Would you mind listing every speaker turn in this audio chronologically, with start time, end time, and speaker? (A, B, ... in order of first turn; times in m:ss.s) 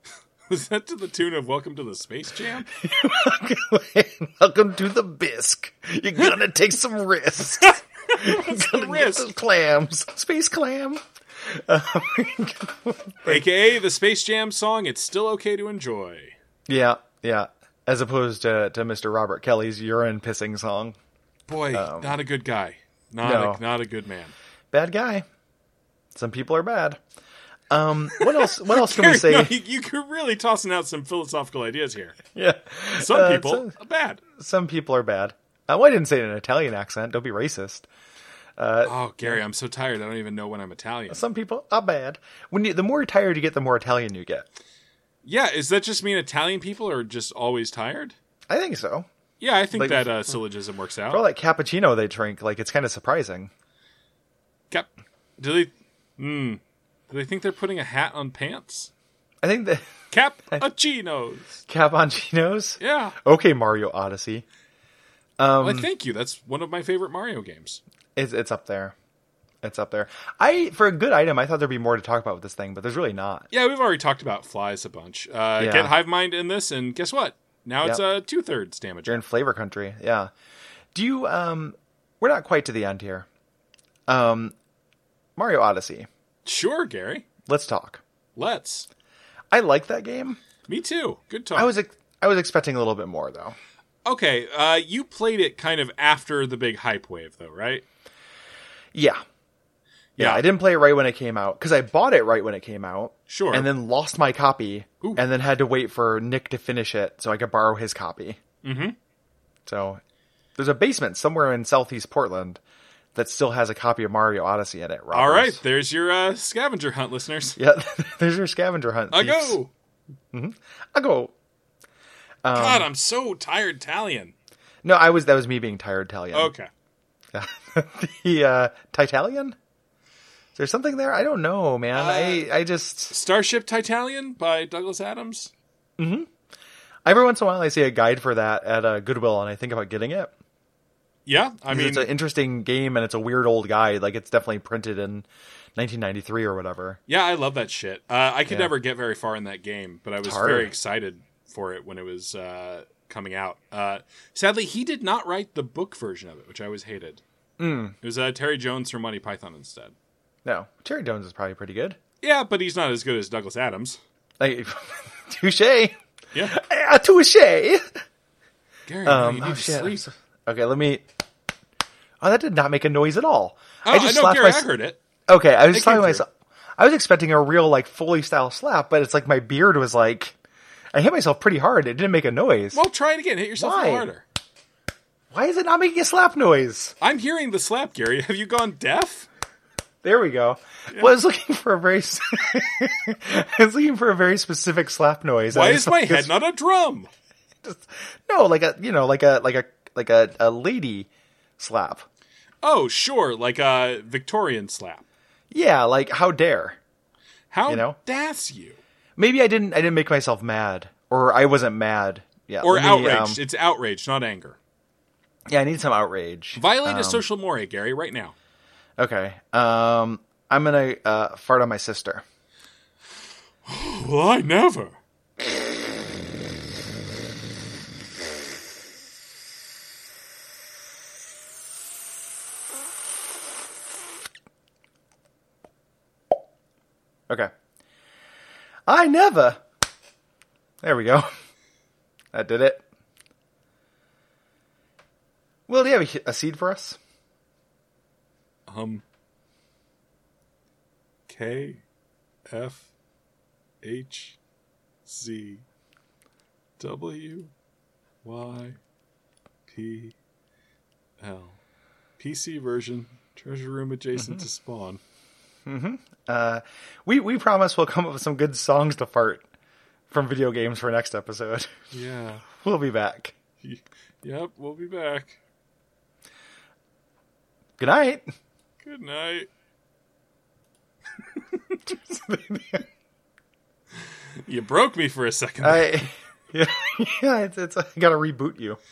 0:00.5-0:02.7 A
0:02.8-0:13.5 B
0:07.6-0:09.3 A
0:13.2-0:16.4 A
0:16.7-0:21.0 B
0:21.5-0:24.3 A
0:21.7-0:22.2 B
0:23.2-0:23.6 B
0:24.7-0:25.2 B
0:26.2-0:27.0 B
0:27.7-0:29.5 B
0:28.2-0:32.2 A
0:32.4-0:33.7 B
0:32.9-0:34.2 A
0:34.4-0:37.9 B
0:38.6-0:39.4 B
0:38.8-0:41.2 A
0:41.1-0:44.5 B
0:45.2-0:48.2 A
0:48.5-0:49.1 B
0:49.4-0:51.2 A
0:49.7-0:50.2 B
0:51.1-0:53.5 B
0:54.7-0:58.9 A
0:59.4-0:59.9 B
1:00.1-1:01.6 A
1:01.7-1:04.4 B
1:02.8-1:03.2 A
1:05.4-1:05.9 B
1:05.6-1:07.8 A
1:08.2-1:08.9 B
1:09.6-1:13.5 B
1:13.5-1:19.2 A
1:15.6-1:15.9 B
1:19.1-1:20.3 B
1:20.9-1:23.2 B
1:24.1-1:24.6 B
1:25.4-1:26.1 B
1:26.4-1:27.2 A
1:27.5-1:28.0 B
1:28.4-1:28.9 A
1:29.5-1:30.4 B
1:30.7-1:31.7 A
1:31.5-1:33.6 B
1:34.1-1:37.8 A
1:38.9-1:39.2 B
1:40.2-1:40.4 A
1:40.2-1:48.4 B
1:43.3-1:43.7 A
1:48.6-1:49.0 A
1:49.6-1:50.0 B
1:50.6-1:52.6 B
1:53.1-1:55.6 B
1:55.1-1:57.6 A
1:57.6-1:59.6 B
1:59.1-1:59.7 A
2:00.3-2:01.3 B
2:02.4-2:02.9 B
2:02.5-2:04.3 A
2:04.8-2:06.5 B
2:06.3-2:06.7 A
2:07.3-2:09.6 B
2:10.6-2:13.1 B
2:11.9-2:12.5 A
2:13.1-2:15.5 A
2:16.0-2:16.3 B
2:17.1-2:20.3 B
2:21.2-2:22.1 A
2:21.7-2:27.0 B
2:27.1-2:37.2 A
2:30.2-2:30.7 B
2:37.6-2:38.0 B
2:38.0-2:40.0 A
2:40.4-2:42.0 B
2:42.2-2:44.0 A
2:44.4-2:48.0 B
2:48.9-2:50.0 A
2:49.0-2:51.0 B
2:52.2-2:54.7 B
2:53.8-2:55.0 A
2:55.3-2:56.3 B
2:55.7-2:56.2 A
2:56.8-3:00.4 B
3:00.9-3:02.8 B
3:02.7-3:04.2 A
3:03.6-3:04.1 B
3:05.3-3:07.0 B
3:07.0-3:09.3 A
3:10.0-3:16.3 B
3:15.5-3:17.1 A
3:17.6-3:22.1 B
3:22.6-3:25.0 A
3:25.5-3:26.8 B
3:27.5-3:28.8 A
3:27.7-3:28.0 B
3:29.2-3:33.4 B
3:32.6-3:34.6 A
3:35.5-3:37.2 B
3:36.5-3:38.3 A
3:39.0-3:42.2 B
3:43.6-3:45.0 A
3:58.9-3:59.6 B
4:00.8-4:01.3 B
4:02.3-4:02.8 B
4:05.7-4:07.0 B
4:08.7-4:09.0 A
4:11.3-4:11.8 A
4:12.5-4:12.9 A
4:13.8-4:14.4 A
4:15.1-4:15.6 A
4:16.8-4:17.5 A
4:18.2-4:18.8 A
4:19.7-4:20.1 A
4:21.2-4:21.6 A
4:22.2-4:25.0 A
4:25.6-4:29.5 B
4:30.1-4:31.7 B
4:31.9-4:32.4 A
4:32.6-4:33.4 B
4:33.6-4:35.4 A
4:37.8-4:38.2 B
4:38.8-4:39.5 A
4:41.4-4:41.8 A
4:41.9-4:42.8 B
4:44.4-4:46.0 A
4:45.6-4:48.8 B